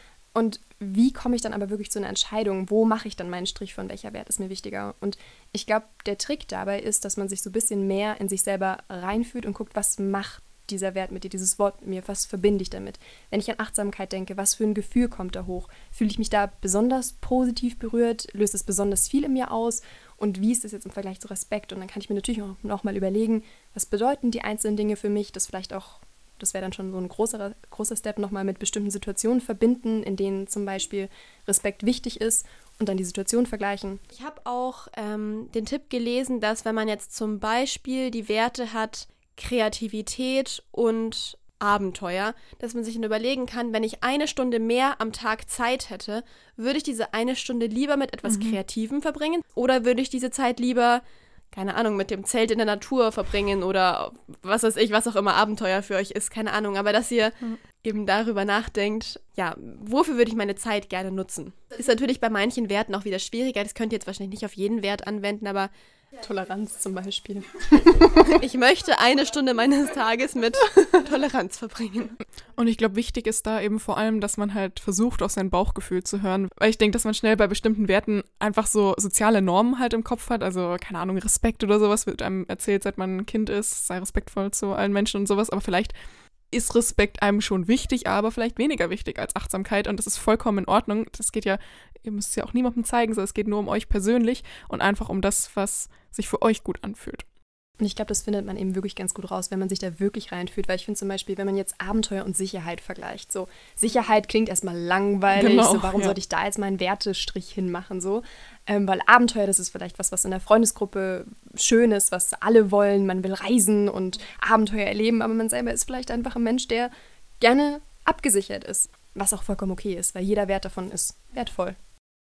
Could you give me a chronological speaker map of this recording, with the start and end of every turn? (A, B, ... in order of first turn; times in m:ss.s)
0:00.3-0:34.0 A
0:34.1-1:05.7 B
0:48.2-0:48.6 C
1:06.2-1:08.4 A
1:08.2-1:12.1 B
1:12.6-1:25.9 C
1:26.5-1:37.2 C
1:37.8-2:01.8 A
1:45.3-1:46.2 C